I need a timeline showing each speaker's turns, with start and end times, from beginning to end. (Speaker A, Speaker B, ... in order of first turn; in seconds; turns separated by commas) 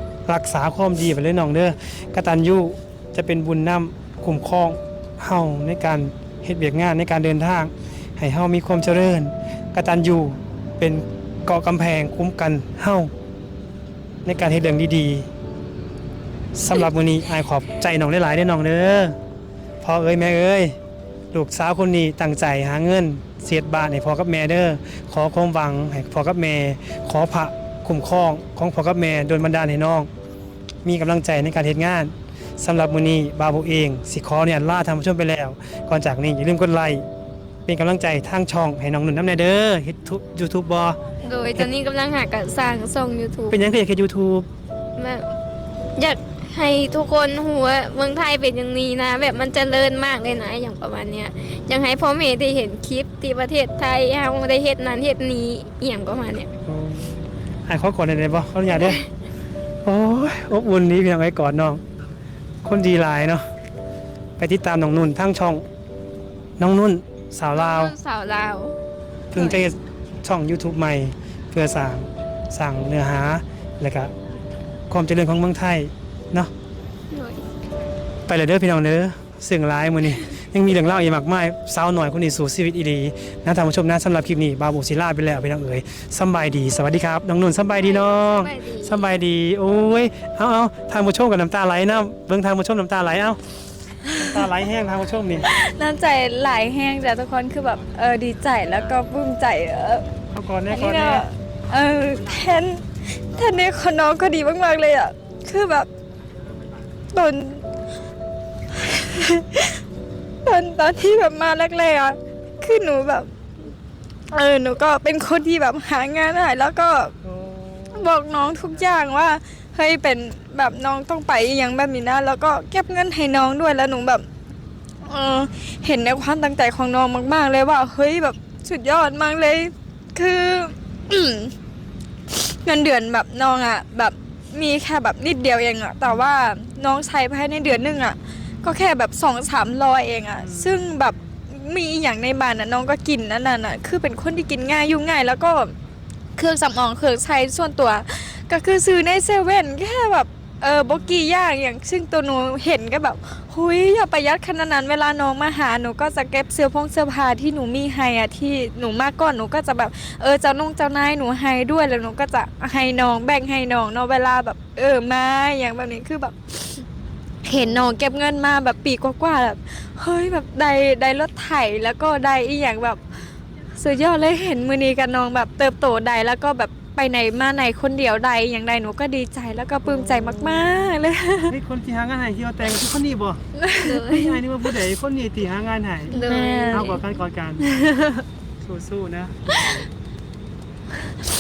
Speaker A: 0.3-13.1, Speaker A: 14.2-15.3, Speaker A: 16.5-19.2, Speaker A: 19.8-20.8, Speaker A: 21.3-30.1, Speaker A: 30.8-37.0, Speaker A: 37.7-41.0, Speaker B: 41.2-43.6, Speaker A: 43.5-44.5, Speaker B: 45.0-45.3, Speaker B: 46.0-56.5, Speaker A: 56.6-59.0, Speaker B: 58.8-59.0, Speaker A: 59.8-61.8, Speaker A: 62.6-63.4, Speaker A: 64.4-65.7, Speaker A: 66.6-67.9, Speaker B: 67.5-68.7, Speaker A: 69.3-74.1, Speaker A: 74.9-76.5, Speaker B: 77.1-77.4, Speaker A: 78.3-93.4, Speaker B: 87.8-89.1, Speaker C: 94.0-94.5, Speaker A: 94.1-95.5, Speaker C: 95.4-100.1, Speaker A: 100.3-101.3, Speaker C: 100.7-105.9, Speaker C: 107.1-107.7, Speaker C: 108.7-109.8, Speaker C: 110.4-113.3, Speaker C: 114.3-117.2, Speaker A: 117.2-118.7, Speaker C: 117.9-124.3, Speaker C: 125.0-131.5, Speaker C: 132.3-145.7, Speaker A: 140.4-141.4, Speaker C: 146.4-166.8, Speaker A: 150.9-151.3, Speaker C: 167.4-173.0, Speaker C: 173.8-181.6, Speaker A: 179.8-180.9, Speaker A: 181.5-186.2, Speaker C: 183.6-184.3, Speaker B: 186.1-187.0, Speaker C: 186.1-187.0, Speaker A: 186.7-187.7, Speaker C: 187.6-188.2, Speaker A: 188.6-189.8, Speaker C: 189.5-189.8